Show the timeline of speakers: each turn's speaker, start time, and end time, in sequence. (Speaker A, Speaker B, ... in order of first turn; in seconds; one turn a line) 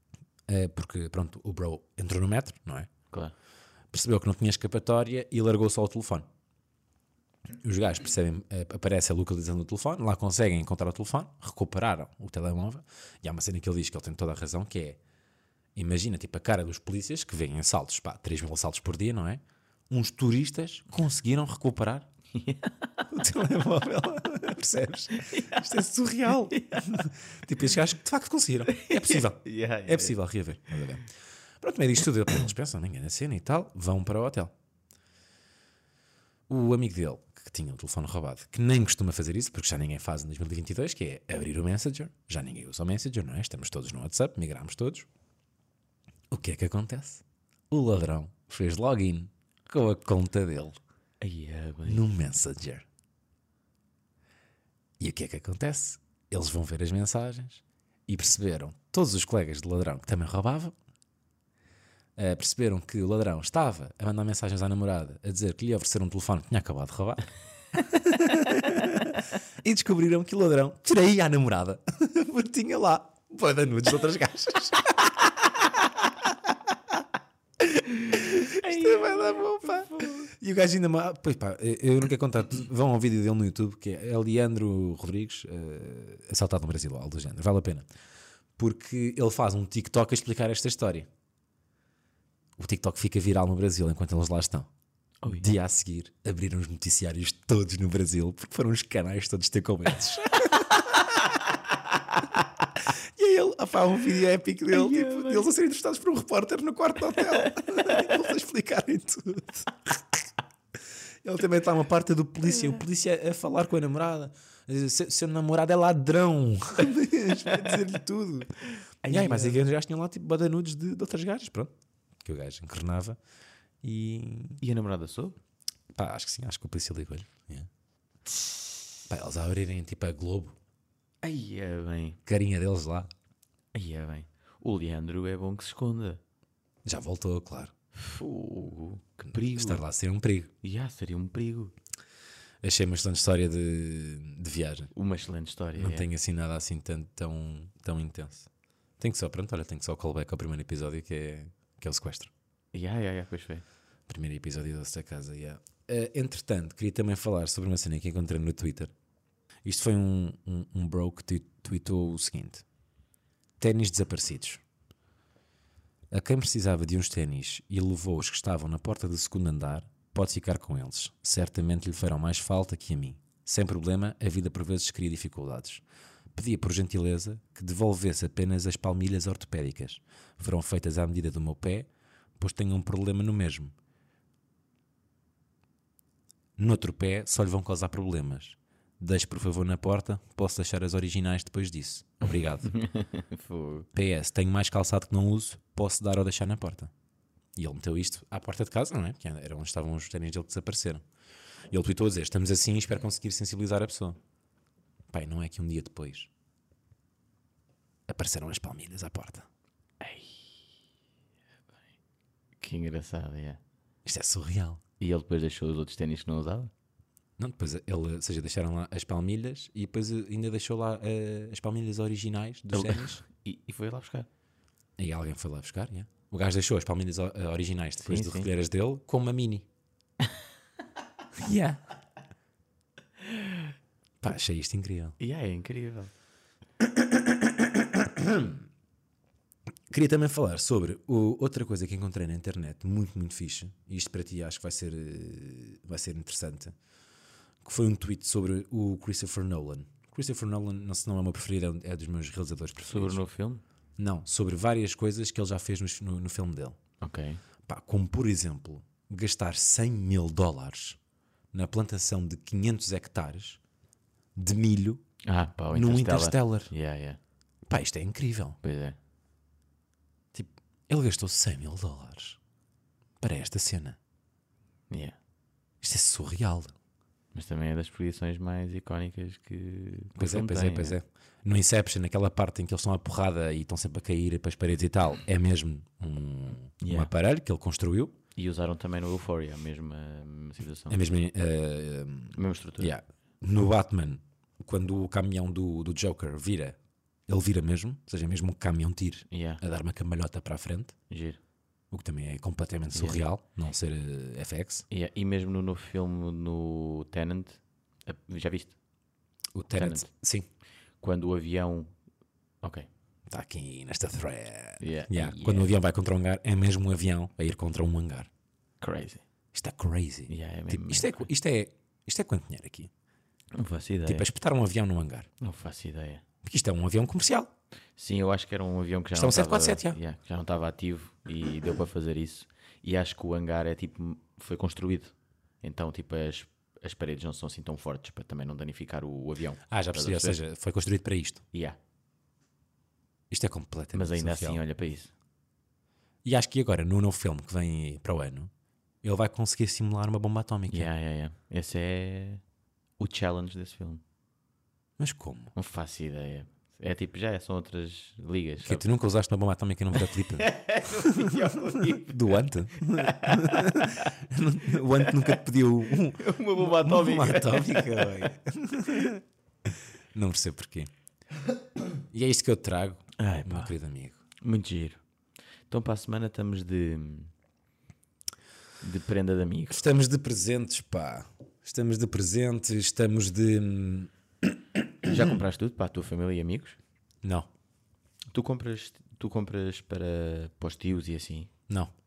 Speaker A: 0.5-2.9
Speaker A: 3.9-6.3
Speaker A: 7.6-15.0
Speaker A: 15.7-22.1
Speaker B: 22.3-22.9
Speaker A: 23.1-34.5
Speaker B: 25.2-25.7
Speaker B: 26.5-27.1
Speaker B: 28.7-30.1
Speaker A: 36.5-45.1
Speaker A: 46.3-50.8
Speaker B: 51.2-52.1
Speaker A: 51.9-52.9
Speaker A: 55.0-60.7
Speaker A: 62.1-75.2
Speaker A: 78.1-87.9
Speaker B: 78.4-80.3
Speaker A: 88.6-91.1
Speaker A: 92.6-94.7
Speaker B: 95.2-95.5
Speaker A: 95.3-101.3
Speaker A: 102.8-110.0
Speaker B: 104.7-105.5
Speaker A: 111.2-121.7
Speaker B: 119.0-119.6
Speaker A: 122.2-123.2
Speaker A: 123.8-124.6
Speaker B: 124.6-125.4
Speaker A: 125.9-127.7
Speaker A: 129.1-130.6
Speaker B: 131.2-132.2
Speaker A: 132.2-133.1
Speaker B: 133.7-136.2
Speaker A: 136.8-137.7
Speaker B: 137.9-139.8
Speaker A: 139.3-140.5
Speaker B: 140.6-141.7
Speaker A: 142.6-144.9
Speaker B: 144.9-146.1
Speaker A: 145.8-148.5
Speaker A: 149.0-152.3
Speaker B: 152.7-153.6
Speaker A: 154.1-158.9
Speaker A: 159.6-162.6
Speaker A: 163.6-164.6
Speaker A: 166.1-175.8
Speaker A: 176.3-181.9
Speaker A: 182.4-183.7
Speaker A: 186.6-192.7
Speaker B: 192.7-193.9
Speaker A: 193.9-196.9
Speaker A: 197.6-201.0
Speaker A: 201.7-204.2
Speaker A: 205.1-206.3
Speaker A: 208.1-209.5
Speaker B: 210.0-210.5
Speaker B: 212.6-213.6
Speaker A: 214.1-214.8
Speaker B: 215.0-216.7
Speaker A: 217.4-223.2
Speaker B: 222.7-224.3
Speaker A: 225.0-229.7
Speaker B: 228.0-228.5
Speaker A: 231.3-231.8
Speaker B: 233.3-233.6
Speaker A: 234.2-235.2
Speaker B: 235.2-236.1
Speaker A: 236.8-238.6
Speaker A: 239.9-246.7
Speaker A: 247.6-253.2
Speaker B: 252.8-253.6
Speaker A: 254.0-256.8
Speaker B: 257.0-257.4
Speaker A: 257.7-261.0
Speaker A: 261.5-263.6
Speaker A: 264.3-265.0
Speaker B: 265.2-267.2
Speaker A: 265.7-266.7
Speaker A: 267.7-268.6
Speaker B: 268.6-269.0
Speaker A: 270.4-272.4
Speaker A: 273.2-274.0
Speaker B: 274.9-275.1
Speaker A: 275.8-276.7
Speaker B: 277.3-280.9
Speaker A: 280.1-288.1
Speaker B: 286.8-287.1
Speaker B: 288.4-291.0
Speaker A: 290.9-296.8
Speaker B: 292.3-292.9
Speaker A: 297.3-300.9
Speaker B: 299.3-299.6
Speaker B: 301.1-301.4
Speaker A: 301.9-304.9
Speaker B: 302.9-303.2
Speaker B: 304.9-308.8
Speaker A: 309.5-310.5
Speaker B: 309.7-310.1
Speaker B: 311.0-311.9
Speaker A: 313.3-318.3
Speaker B: 314.8-315.7
Speaker B: 318.8-319.2
Speaker A: 319.5-322.9
Speaker B: 320.3-321.3
Speaker B: 323.5-324.3
Speaker A: 324.1-325.3
Speaker B: 325.4-326.2
Speaker A: 326.4-327.5
Speaker B: 328.0-340.4
Speaker A: 329.1-330.0
Speaker A: 339.7-341.4
Speaker B: 341.5-341.8
Speaker A: 343.3-344.6
Speaker B: 343.9-345.1
Speaker A: 346.2-348.5
Speaker A: 349.0-350.9
Speaker B: 350.7-352.4
Speaker B: 353.0-354.0
Speaker A: 355.0-355.5
Speaker B: 355.5-358.8
Speaker A: 358.6-369.2
Speaker B: 360.0-362.2
Speaker B: 362.9-364.1
Speaker B: 365.0-365.4
Speaker B: 366.0-368.3
Speaker A: 370.1-370.9
Speaker A: 372.1-374.2
Speaker B: 373.2-373.7
Speaker B: 374.4-375.0
Speaker B: 375.7-377.3
Speaker B: 378.8-379.8
Speaker A: 379.7-384.9
Speaker B: 385.0-386.8
Speaker A: 387.2-387.5
Speaker B: 388.3-391.5